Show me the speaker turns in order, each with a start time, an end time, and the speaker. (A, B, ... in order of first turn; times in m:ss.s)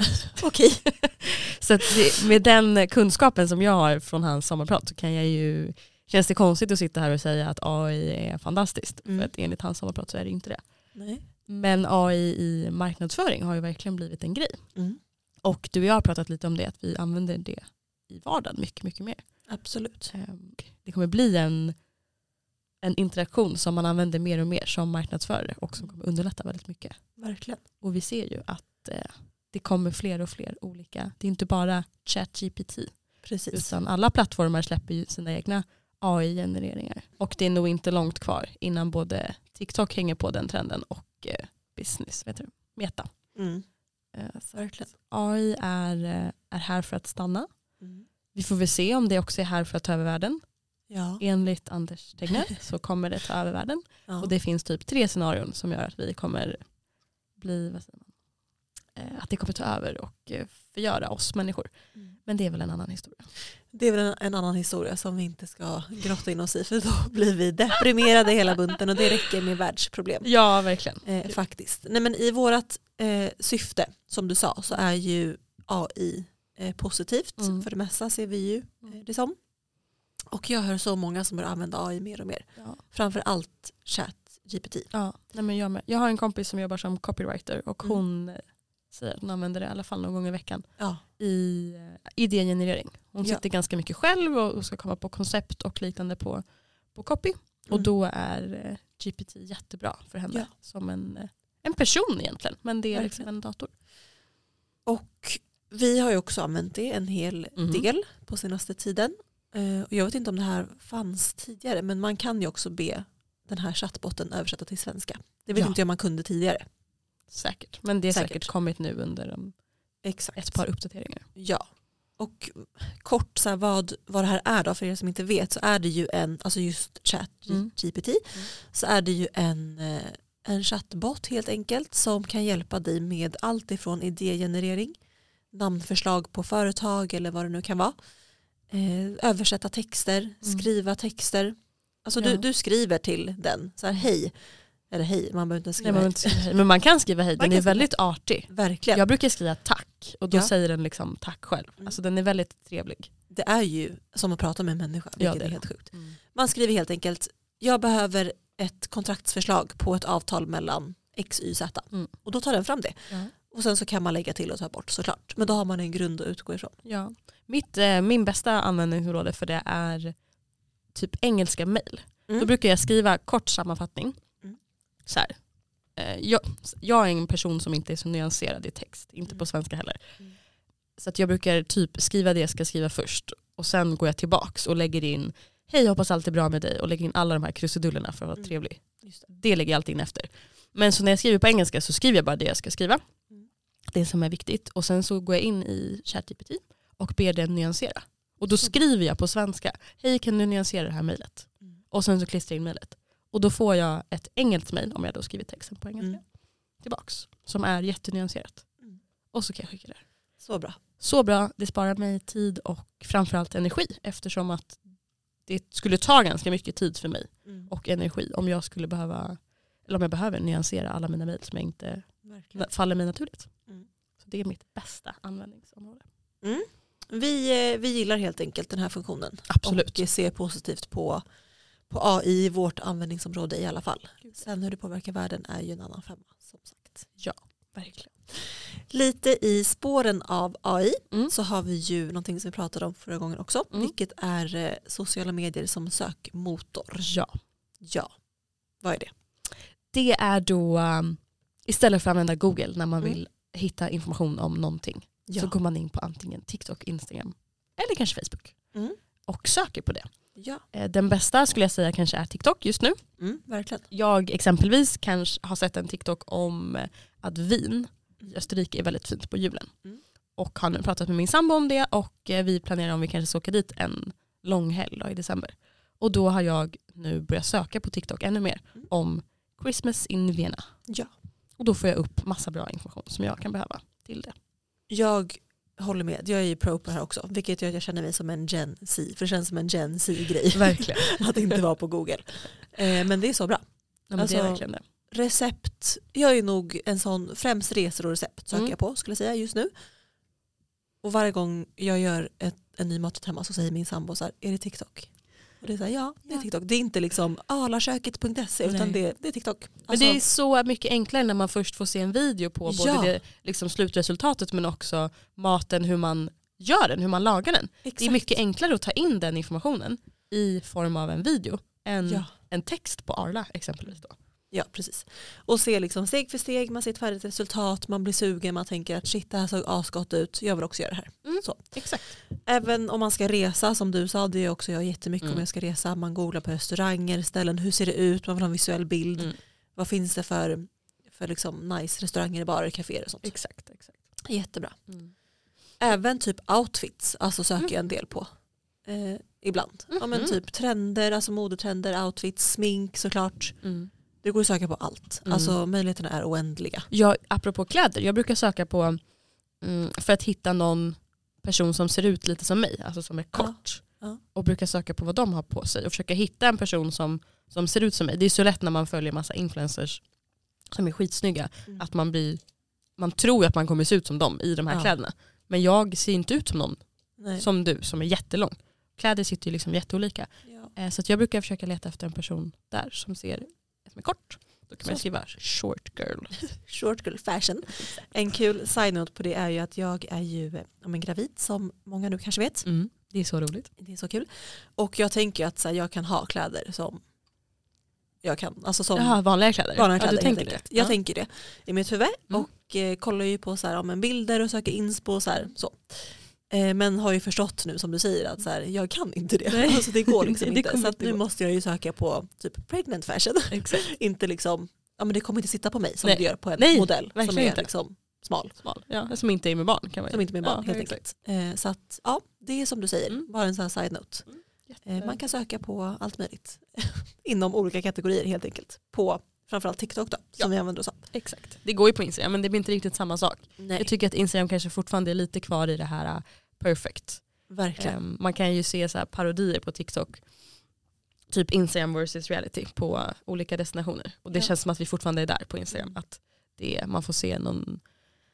0:00.3-0:00.9 A
0:00.9-0:10.6 B
0:09.1-0:09.3 A
0:10.9-0:11.2 A
0:11.5-0:14.6 B
0:15.4-0:19.5 B
0:19.5-0:20.1 A
0:20.1-0:21.8 B
0:22.8-0:27.2 B
0:27.2-0:27.6 A
0:27.8-0:43.2 B
0:33.2-0:33.7 A
0:43.3-0:43.6 A
0:44.1-0:47.5 B
0:44.6-0:44.9 A
0:48.3-0:50.4 B
0:50.9-0:51.2 A
0:51.2-0:56.7 B
0:54.1-0:54.3 A
0:57.4-0:58.1 B
0:58.9-1:03.3 B
1:03.7-1:10.3 A
1:10.2-1:11.3 B
1:11.0-1:19.4 A
1:17.4-1:17.7 B
1:20.3-1:24.9 A
1:24.9-1:43.7 B
1:42.9-1:43.3 A
1:44.8-1:56.6 A
1:47.6-1:47.8 B
1:57.3-1:59.6 B
1:58.1-1:58.5 A
2:00.0-2:00.6 A
2:00.3-2:01.3 B
2:01.4-2:15.0 A
2:07.5-2:07.7 B
2:15.5-2:18.0 A
2:18.7-2:24.3 A
2:22.2-2:22.4 B
2:24.9-2:26.4 A
2:25.8-2:33.1 B
2:27.4-2:27.9 A
2:28.5-2:29.0 A
2:33.3-2:46.8 A
2:35.2-2:36.2 B
2:46.8-2:50.2 B
2:50.9-2:54.2 B
2:55.0-2:55.4 B
2:55.9-3:00.2 B
3:01.0-3:13.0 B
3:08.4-3:09.2 A
3:13.9-3:28.7 B
3:29.3-3:30.0 B
3:30.4-3:30.8 A
3:31.0-3:34.8 B
3:35.4-3:43.5 B
3:42.2-3:42.7 A
3:44.2-3:46.0 B
3:46.4-3:51.2 A
3:49.5-3:50.0 B
3:51.9-3:57.1 A
3:57.2-3:58.1 B
3:58.3-4:07.1 A
4:07.0-4:07.4 B
4:07.8-4:08.1 A
4:08.8-4:09.1 A
4:09.9-4:18.6 B
4:15.3-4:15.5 A
4:19.2-4:20.1 B
4:20.4-4:20.6 A
4:20.7-4:23.0 B
4:23.2-4:23.8 A
4:23.9-4:29.7 B
4:30.4-4:40.8 B
4:41.6-4:44.4 B
4:44.9-4:53.6 A
4:50.5-4:51.2 B
4:54.1-4:54.8 B
4:54.1-4:59.7 A
5:01.0-5:10.2 A
5:08.6-5:09.0 B
5:09.9-5:24.2 B
5:12.6-5:13.1 A
5:17.8-5:18.3 A
5:22.0-5:22.3 A
5:24.5-5:43.4 A
5:31.2-5:32.1 B
5:43.2-5:44.0 B
5:44.2-5:44.9 A
5:45.8-5:48.3 A
5:48.8-5:53.6 A
5:49.9-5:50.4 B
5:53.6-5:53.9 B
5:54.2-5:56.9 A
5:55.2-5:55.6 B
5:56.9-5:59.0 B
5:59.6-6:10.0 B
6:03.4-6:04.2 A
6:10.7-6:12.4 B
6:12.9-6:26.4 B
6:17.2-6:17.4 A
6:20.4-6:20.7 A
6:24.8-6:25.2 A
6:26.5-6:32.6 A
6:32.6-6:33.7 B
6:33.8-6:37.0 A
6:38.2-6:58.6 A
6:38.9-6:41.0 B
6:49.5-6:51.2 B
6:53.5-6:53.9 B
6:56.0-6:57.7 B
6:58.6-7:01.0 B
7:00.1-7:04.3 A
7:04.2-7:05.2 B
7:04.8-7:11.1 A
7:10.4-7:20.6 B
7:13.6-7:13.9 A
7:17.5-7:18.0 A
7:21.3-7:27.8 B
7:25.7-7:26.0 A